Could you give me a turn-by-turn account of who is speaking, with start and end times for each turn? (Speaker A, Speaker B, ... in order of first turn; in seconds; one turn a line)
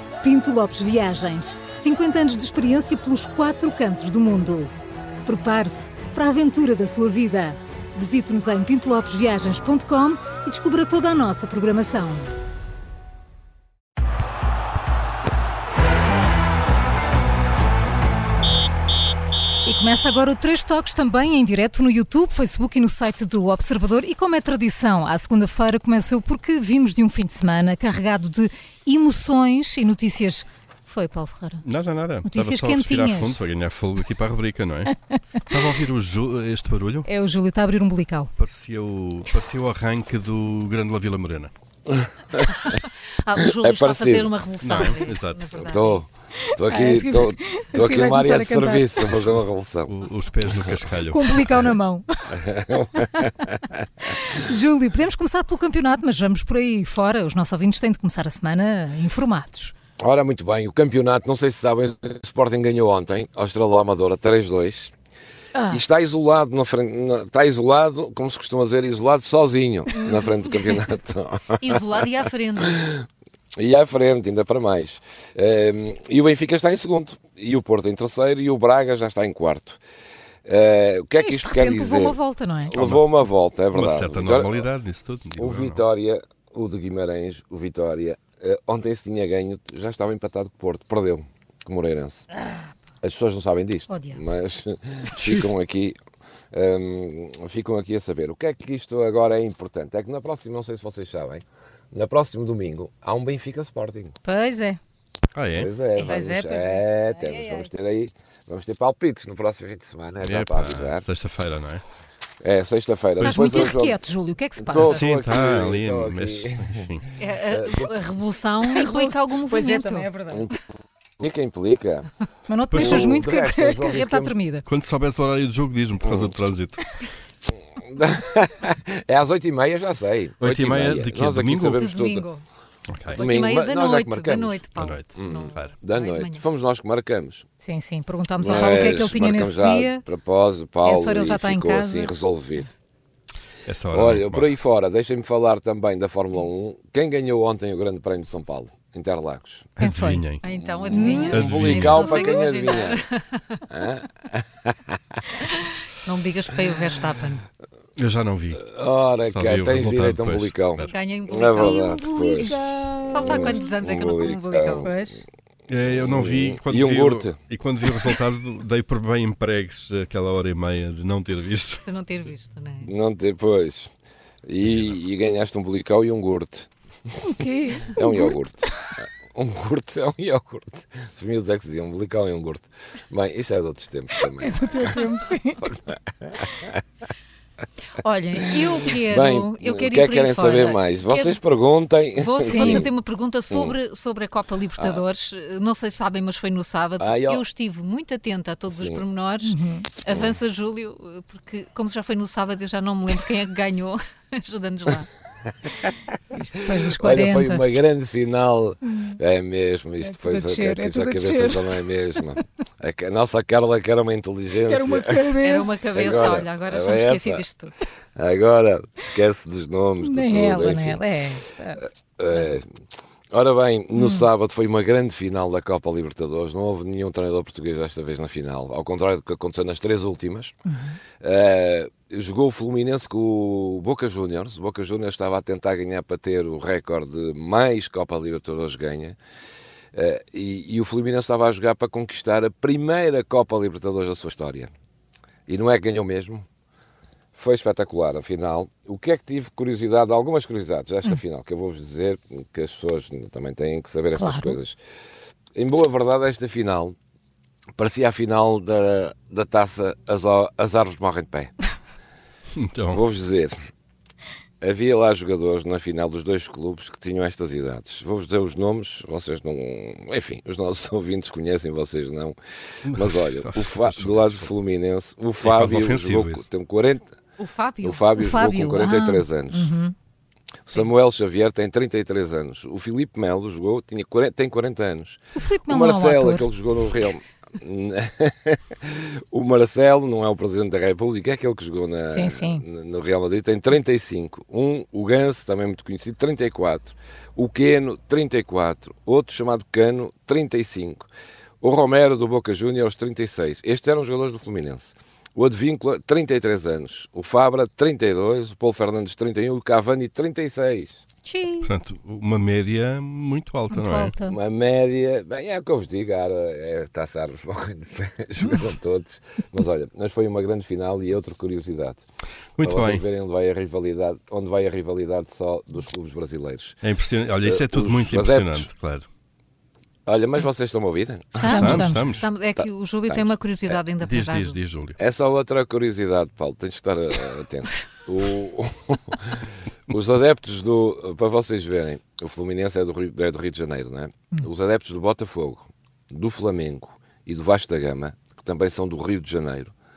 Speaker A: 0.2-4.7
Speaker A: 5.2-12.3
Speaker A: 19.6-31.6
Speaker B: 31.6-35.0
Speaker A: 32.2-33.4
Speaker B: 35.5-37.1
Speaker A: 37.0-38.3
Speaker B: 38.4-41.5
Speaker C: 41.9-42.7
Speaker D: 42.7-46.1
Speaker C: 43.4-44.4
Speaker B: 44.6-45.5
Speaker C: 45.5-49.9
Speaker A: 46.5-49.0
Speaker B: 49.1-51.6
Speaker A: 51.1-52.4
Speaker C: 52.3-53.8
Speaker A: 53.0-53.4
Speaker A: 54.0-59.7
Speaker C: 60.0-64.9
Speaker A: 65.5-65.8
Speaker C: 65.7-72.1
Speaker D: 71.6-72.8
Speaker C: 72.6-73.0
Speaker C: 73.6-79.8
Speaker C: 80.4-84.7
Speaker A: 81.2-82.8
Speaker B: 82.7-83.0
Speaker B: 83.7-85.8
Speaker C: 85.4-92.3
Speaker C: 93.0-96.0
Speaker A: 93.9-94.2
Speaker B: 95.2-95.5
Speaker C: 96.5-104.1
Speaker A: 104.2-104.8
Speaker B: 105.3-105.7
Speaker C: 105.5-111.0
Speaker A: 106.0-107.7
Speaker B: 110.2-111.8
Speaker C: 112.4-114.0
Speaker B: 113.2-113.5
Speaker A: 113.2-115.0
Speaker C: 114.6-116.8
Speaker B: 114.8-117.0
Speaker D: 117.2-120.1
Speaker C: 117.5-117.9
Speaker A: 118.7-120.5
Speaker C: 121.2-122.1
Speaker A: 122.5-124.6
Speaker B: 122.7-123.2
Speaker C: 122.8-124.4
Speaker B: 124.6-126.8
Speaker C: 126.0-126.3
Speaker C: 127.7-132.2
Speaker B: 130.4-131.8
Speaker D: 131.8-132.4
Speaker B: 132.9-133.2
Speaker D: 133.1-136.4
Speaker C: 133.1-134.6
Speaker B: 134.7-135.7
Speaker C: 135.2-137.5
Speaker A: 137.6-140.0
Speaker C: 138.4-142.7
Speaker A: 140.8-142.1
Speaker B: 143.7-144.5
Speaker C: 143.9-149.7
Speaker B: 149.8-150.4
Speaker A: 149.8-150.2
Speaker D: 150.4-153.6
Speaker C: 150.5-153.0
Speaker A: 150.9-151.4
Speaker B: 151.3-152.2
Speaker A: 152.0-152.7
Speaker C: 153.7-155.2
Speaker D: 155.4-157.4
Speaker B: 158.0-158.6
Speaker C: 158.6-162.6
Speaker B: 159.3-160.9
Speaker D: 160.8-161.8
Speaker A: 161.6-163.7
Speaker D: 163.1-164.9
Speaker C: 163.2-165.0
Speaker A: 164.8-165.2
Speaker B: 165.7-171.8
Speaker C: 165.9-167.4
Speaker D: 171.8-172.9
Speaker C: 172.8-173.9
Speaker C: 174.4-176.7
Speaker B: 174.7-174.9
Speaker A: 177.2-178.3
Speaker C: 177.8-185.1
Speaker A: 184.2-185.6
Speaker C: 185.6-186.8
Speaker D: 188.0-191.4
Speaker C: 188.4-192.9
Speaker D: 192.2-205.1
Speaker A: 192.4-192.9
Speaker C: 193.5-193.8
Speaker C: 194.8-195.0
Speaker C: 197.0-197.4
Speaker C: 198.7-199.0
Speaker A: 199.4-199.9
Speaker C: 200.1-200.4
Speaker A: 206.3-207.7
Speaker C: 206.6-215.4
Speaker A: 208.9-209.2
Speaker A: 210.0-212.2
Speaker A: 214.6-216.4
Speaker D: 215.4-217.8
Speaker C: 215.9-217.4
Speaker C: 218.1-221.0
Speaker A: 220.0-222.5
Speaker C: 222.2-222.7
Speaker C: 223.3-230.5
Speaker A: 223.9-224.3
Speaker A: 230.7-231.0
Speaker C: 231.2-239.2
Speaker C: 239.9-244.7
Speaker C: 245.5-246.4
Speaker C: 247.3-254.8
Speaker A: 254.1-254.6
Speaker C: 255.5-257.0
Speaker C: 257.8-261.5
Speaker B: 262.6-263.0
Speaker C: 262.9-263.5
Speaker C: 264.6-277.2
Speaker B: 272.9-274.5
Speaker B: 275.4-276.4
Speaker D: 277.4-278.1
Speaker C: 277.8-279.7
Speaker A: 278.2-279.9
Speaker C: 280.6-301.1
Speaker A: 285.3-286.5
Speaker A: 292.1-292.6
Speaker C: 301.6-311.1
Speaker A: 311.2-311.7
Speaker B: 311.6-314.1
Speaker A: 313.7-314.4
Speaker C: 314.3-322.0
Speaker B: 322.6-323.0
Speaker C: 322.6-326.8
Speaker B: 326.8-329.1
Speaker C: 327.4-328.7
Speaker C: 330.1-332.0
Speaker D: 331.4-334.6
Speaker B: 331.4-332.3
Speaker A: 331.4-332.0
Speaker C: 332.6-333.8
Speaker B: 334.0-335.0
Speaker C: 335.0-349.7